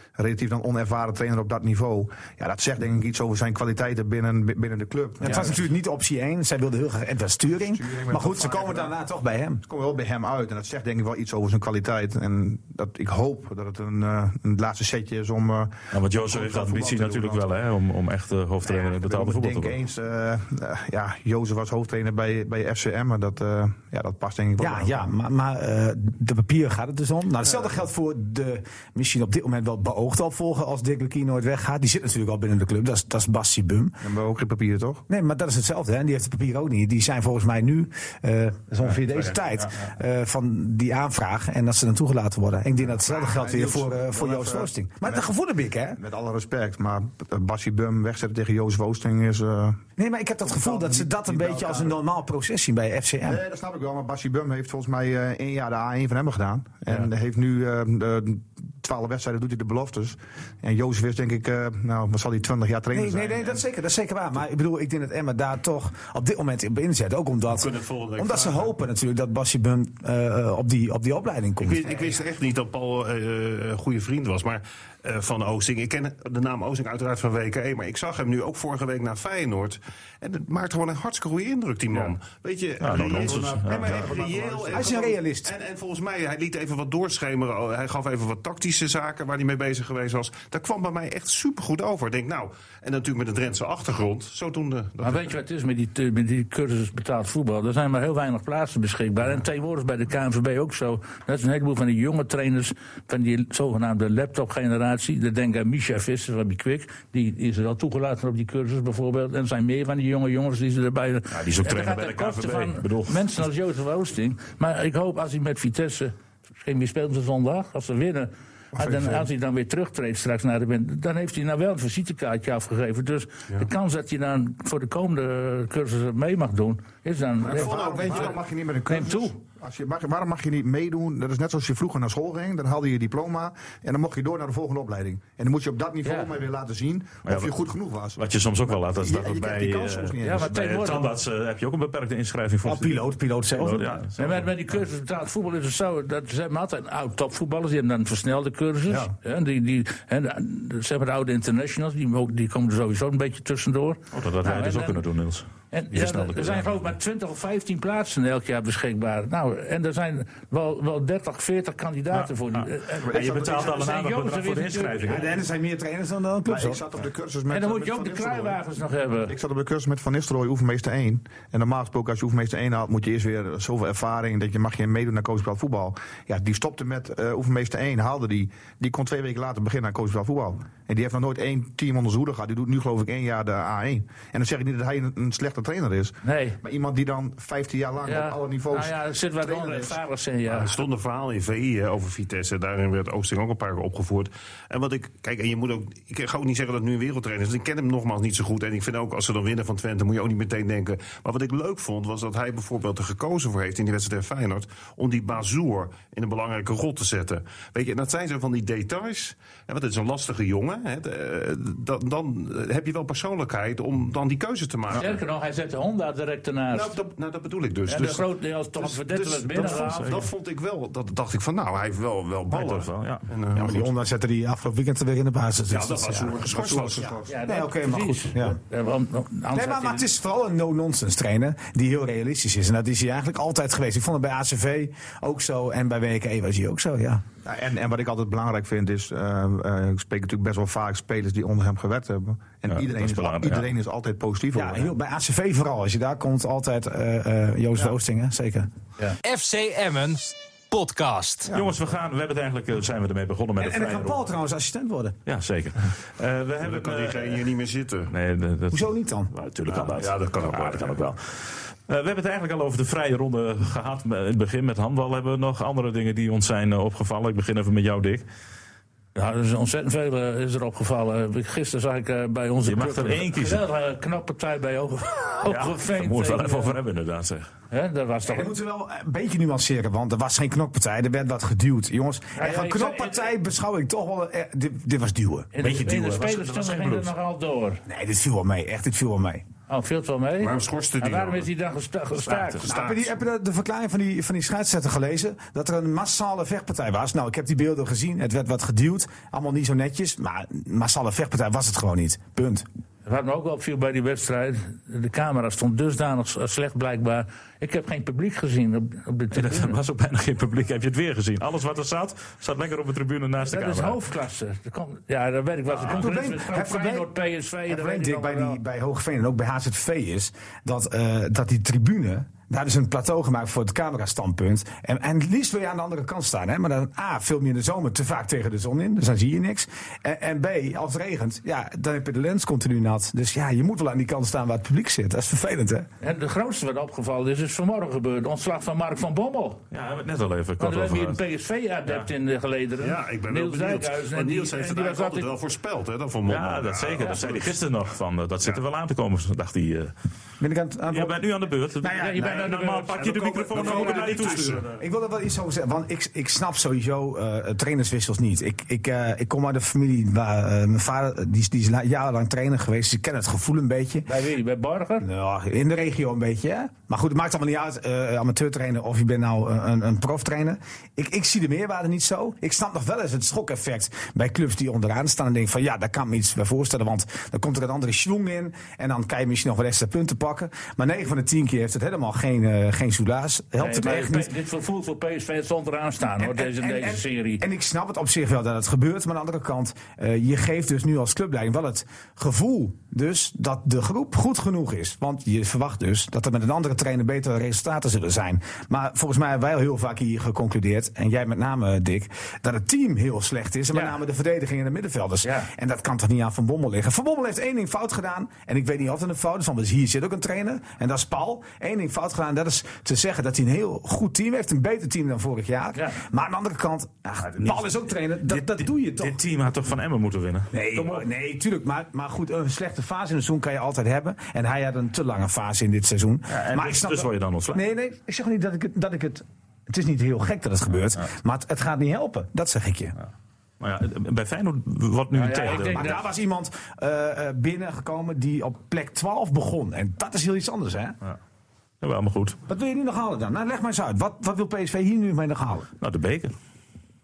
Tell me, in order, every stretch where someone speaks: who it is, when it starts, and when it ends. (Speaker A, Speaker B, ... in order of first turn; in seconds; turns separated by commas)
Speaker A: 0.2-5.6, Speaker B: 5.2-9.6, Speaker A: 7.7-8.9, Speaker A: 9.7-17.5, Speaker C: 15.9-19.8, Speaker A: 18.6-25.0, Speaker B: 24.6-34.0, Speaker A: 34.0-35.0, Speaker B: 35.1-46.0, Speaker A: 43.0-45.2, Speaker A: 46.0-49.8, Speaker B: 50.0-53.4, Speaker A: 50.5-51.9, Speaker A: 53.2-63.5, Speaker B: 62.9-72.2, Speaker D: 67.5-68.7, Speaker D: 71.6-95.3, Speaker C: 82.8-84.1, Speaker A: 83.0-85.0, Speaker B: 83.7-84.1, Speaker B: 84.7-85.5, Speaker E: 95.0-128.3, Speaker C: 111.3-113.4, Speaker A: 118.7-119.3, Speaker A: 127.4-140.6, Speaker D: 127.5-128.3, Speaker E: 128.9-129.3, Speaker C: 137.2-137.5, Speaker C: 138.2-144.5, Speaker E: 140.2-141.1, Speaker B: 142.6-144.0, Speaker E: 144.2-155.0, Speaker C: 154.1-156.8, Speaker E: 155.7-165.2, Speaker C: 162.1-165.3, Speaker A: 163.1-163.9, Speaker B: 165.0-166.8, Speaker A: 166.5-168.6, Speaker E: 167.5-169.3, Speaker A: 169.3-190.0, Speaker E: 186.2-186.6, Speaker E: 188.1-190.8, Speaker D: 190.5-215.2, Speaker E: 214.9-217.0, Speaker D: 216.7-223.9, Speaker E: 217.9-220.2, Speaker C: 219.7-220.3, Speaker C: 222.5-223.2, Speaker B: 223.5-226.5, Speaker D: 225.7-227.2, Speaker A: 226.5-227.2, Speaker E: 227.3-230.1, Speaker B: 227.4-228.6, Speaker B: 229.5-237.2, Speaker A: 237.4-244.9, Speaker C: 242.7-243.7, Speaker B: 244.5-248.7, Speaker F: 249.2-251.5, Speaker C: 251.5-254.2, Speaker B: 253.6-255.2, Speaker C: 255.3-257.5, Speaker D: 256.6-258.1, Speaker C: 258.1-268.2, Speaker B: 258.7-259.3, Speaker D: 259.7-261.0, Speaker E: 269.1-276.8, Speaker C: 272.6-273.6, Speaker C: 275.4-277.5, Speaker E: 277.7-278.5, Speaker B: 278.2-285.5, Speaker E: 282.4-283.3, Speaker E: 285.5-287.8, Speaker C: 285.6-287.1, Speaker B: 287.9-289.4, Speaker E: 289.7-292.7, Speaker D: 290.4-291.5, Speaker D: 292.3-293.1, Speaker B: 292.6-302.6, Speaker E: 303.1-309.8, Speaker C: 309.3-314.0, Speaker E: 313.4-318.6, Speaker B: 315.7-317.1, Speaker B: 317.7-335.9, Speaker E: 336.0-339.6, Speaker C: 339.7-341.2, Speaker E: 340.6-345.3, Speaker D: 342.8-347.5, Speaker C: 346.2-349.9, Speaker B: 350.4-351.2, Speaker C: 350.9-354.6, Speaker B: 351.8-352.4, Speaker E: 351.9-354.4, Speaker D: 353.0-354.7, Speaker B: 354.8-364.1, Speaker E: 364.1-365.1, Speaker B: 365.0-384.3, Speaker E: 383.6-387.4, Speaker B: 386.2-419.2, Speaker E: 405.2-405.5, Speaker C: 417.2-421.1, Speaker B: 420.5-432.9, Speaker C: 426.3-427.6, Speaker C: 433.6-436.0, Speaker E: 435.1-436.0, Speaker B: 435.5-441.0, Speaker C: 441.8-442.4, Speaker B: 442.5-445.7, Speaker C: 445.8-446.3